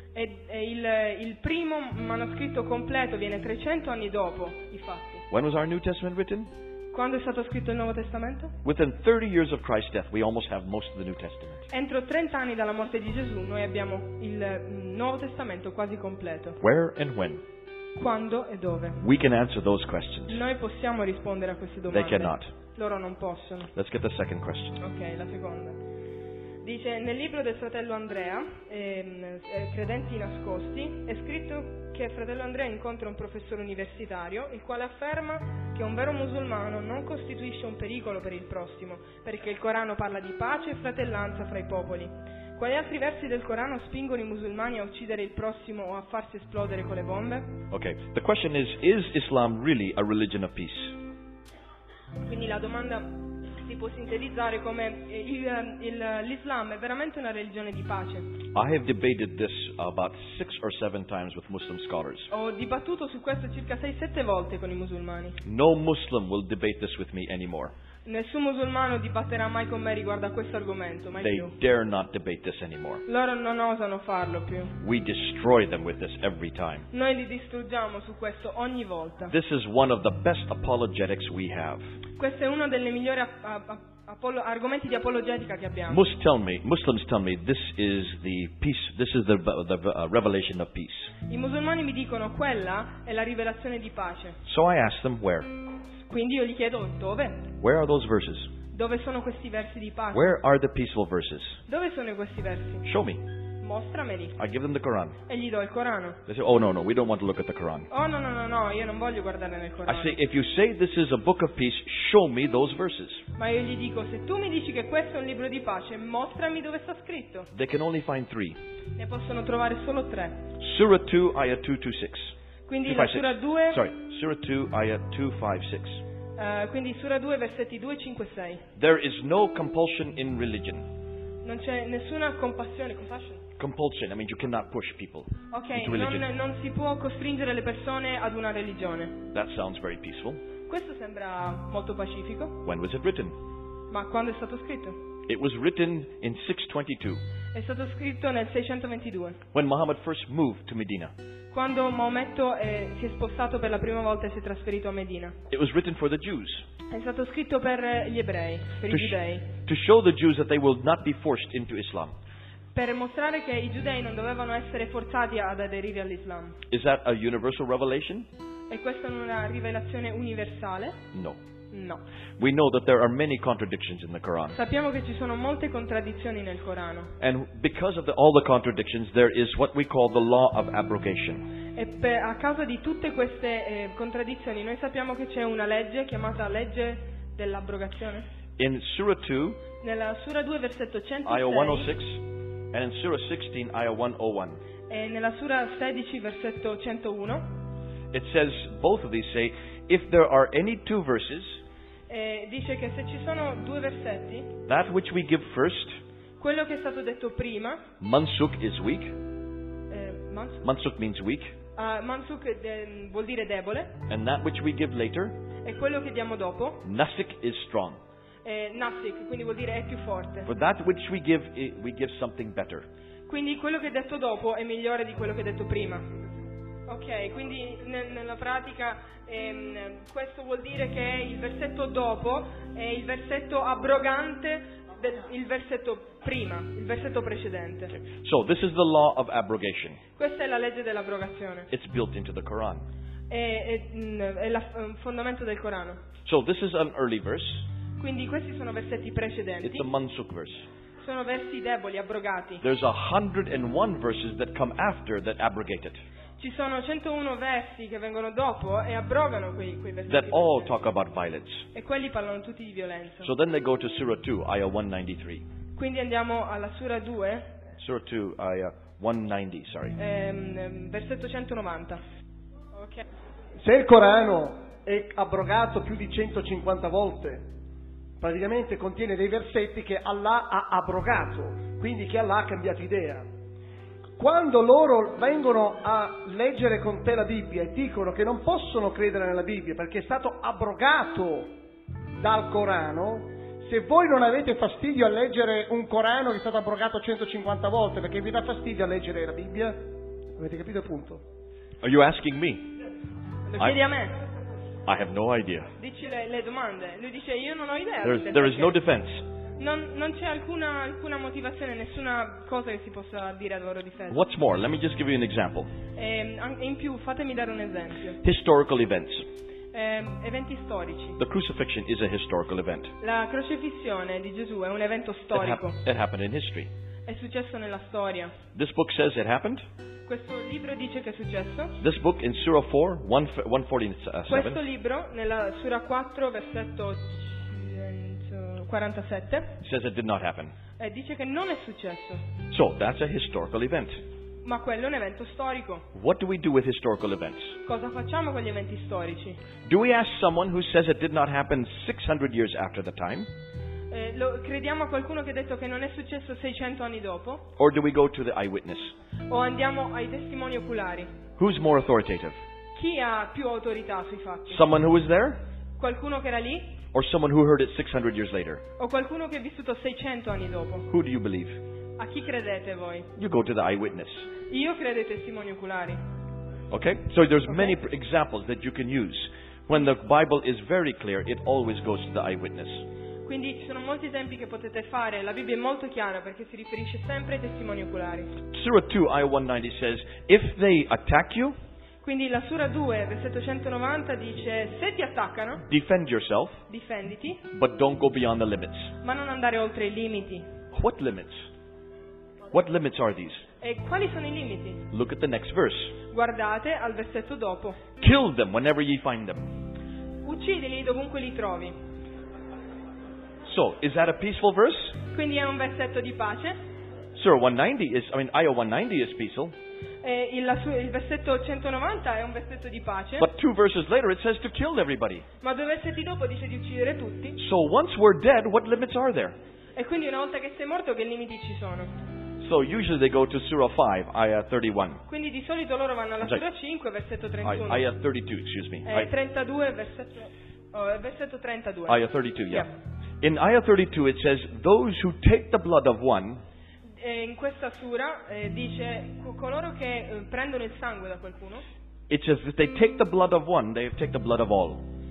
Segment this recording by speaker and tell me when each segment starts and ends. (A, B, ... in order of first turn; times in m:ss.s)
0:00.1-0:05.2 A
0:05.3-0:06.5 B
0:06.9-0:08.5 A
0:08.6-0:11.7 B
0:11.7-0:16.6 A
0:16.6-0:17.4 B
0:18.0-0:19.0 A
0:19.0-0:20.4 B
0:20.3-0:23.7 A
0:21.9-0:22.5 B
0:23.7-0:24.8 B
0:24.8-0:25.8 A
0:26.6-0:47.5 A
0:47.7-0:51.0 B
0:52.2-0:58.2 A
0:58.5-1:02.3 B
1:02.3-1:05.4 A
1:05.4-1:07.7 B
1:08.0-1:11.5 A
1:11.2-1:13.0 B
1:13.0-1:14.7 A
1:14.8-1:16.9 B
1:16.9-1:19.3 A
1:19.3-1:21.8 B
1:22.2-1:26.0 A
1:25.9-1:31.1 B
1:31.3-1:34.4 A
1:34.4-1:35.5 B
1:36.1-1:37.5 A
1:37.6-1:38.5 B
1:38.7-1:40.2 A
1:40.1-1:41.6 B
1:41.7-1:42.8 A
1:42.8-1:43.2 B
1:43.6-1:44.4 A
1:44.4-1:45.2 B
1:45.3-1:46.2 A
1:46.3-1:47.9 B
1:47.9-1:50.2 A
1:49.8-1:53.2 B
1:53.4-1:57.5 A
1:57.5-1:58.6 B
1:59.0-2:00.4 A
2:00.6-2:02.3 B
2:02.7-2:03.8 A
2:02.8-2:06.0 B
2:06.4-2:08.6 A
2:08.8-2:10.8 B
2:11.4-2:13.4 A
2:13.6-2:16.2 B
2:15.5-2:19.2 A
2:19.3-2:20.4 B
2:20.7-2:22.6 A
2:22.6-2:23.3 B
2:23.9-2:25.0 A
2:25.3-2:27.2 B
2:27.5-2:29.4 A
2:29.5-2:31.1 B
2:31.5-2:35.4 A
2:35.5-2:36.6 B
2:36.9-2:39.5 A
2:38.9-2:42.1 B
2:42.7-2:46.6 A
2:46.7-2:48.3 B
2:48.7-2:51.0 A
2:51.1-2:51.4 B
2:51.7-2:52.0 A
2:52.4-2:54.6 B
2:54.5-2:57.1 A
2:57.2-3:01.4 B
3:01.8-3:08.2 A
3:08.6-3:09.6 B
3:09.8-3:11.9 A
3:11.2-3:14.6 B
3:14.9-3:17.4 A
3:18.1-3:21.6 B
3:22.1-3:24.5 A
3:24.6-3:26.0 B
3:26.4-3:27.8 A
3:28.0-3:29.1 B
3:29.9-3:30.6 A
3:30.6-3:31.5 B
3:31.8-3:34.0 A
3:34.1-3:35.4 B
3:35.6-3:36.8 A
3:36.8-3:38.0 B
3:38.4-3:40.5 A
3:40.4-3:42.9 B
3:43.3-3:46.0 A
3:46.9-3:57.9 A
3:57.9-4:00.0 B
4:00.2-4:01.7 A
4:01.7-4:02.8 B
4:03.3-4:06.0 A
4:06.2-4:07.6 B
4:08.0-4:09.8 A
4:09.6-4:10.7 B
4:11.0-4:12.6 A
4:12.6-4:16.0 B
4:16.4-4:20.7 A
4:20.1-4:21.7 B
4:21.7-4:23.3 A
4:23.2-4:25.4 B
4:25.8-4:27.5 A
4:27.8-4:30.0 B
4:30.0-4:32.0 A
4:32.7-4:33.0 A
4:33.6-4:37.4 C
4:38.2-4:43.2 C
4:44.2-4:51.5 C
4:52.2-4:59.8 C
5:00.4-5:01.2 C
5:01.8-5:02.7 B
5:03.5-5:04.1 A
5:04.8-5:05.7 B
5:05.8-5:08.8 A
5:08.0-5:09.2 B
5:09.6-5:14.2 A
5:14.1-5:15.7 B
5:16.0-5:18.2 A
5:18.2-5:19.3 B
5:19.7-5:21.2 A
5:21.2-5:22.9 B
5:23.0-5:25.8 A
5:25.3-5:26.7 B
5:27.0-5:28.4 A
5:28.5-5:29.6 B
5:30.1-5:31.8 A
5:31.8-5:34.6 B
5:34.3-5:39.6 A
5:39.6-5:40.5 B
5:40.8-5:42.2 A
5:42.5-5:44.0 B
5:44.4-5:45.8 A
5:45.9-5:47.6 B
5:47.6-5:49.4 A
5:49.6-5:53.3 B
5:53.9-5:57.4 A
5:57.6-5:58.9 B
5:59.3-6:01.1 A
6:01.4-6:02.4 B
6:02.7-6:04.6 A
6:04.5-6:05.4 B
6:05.8-6:06.8 A
6:06.9-6:08.6 B
6:08.8-6:10.9 A
6:10.9-6:11.6 B
6:12.0-6:13.1 A
6:13.2-6:14.3 B
6:14.5-6:16.0 A
6:16.7-6:22.8 B
6:17.5-6:17.8 A
6:23.2-6:28.3 A
6:28.5-6:31.5 B
6:32.0-6:35.6 A
6:35.6-6:36.6 B
6:36.7-6:37.4 A
6:37.5-6:38.9 B
6:39.0-6:40.4 A
6:40.7-6:41.5 B
6:42.5-6:43.4 B
6:43.6-6:44.8 A
6:44.9-6:46.0 B
6:46.1-6:47.8 A
6:48.0-6:49.4 B
6:50.2-6:51.7 A
6:53.4-6:55.0 B
6:55.1-6:56.5 A
6:57.1-6:59.6 B
7:00.0-7:03.3 A
7:03.2-7:05.2 B
7:05.4-7:07.4 A
7:07.4-7:09.4 B
7:09.8-7:11.9 A
7:12.4-7:15.0 B
7:15.1-7:17.8 A
7:17.4-7:19.1 B
7:18.8-7:22.7 A
7:21.9-7:22.7 B
7:23.2-7:26.4 B
7:27.0-7:31.6 A
7:32.1-7:34.8 B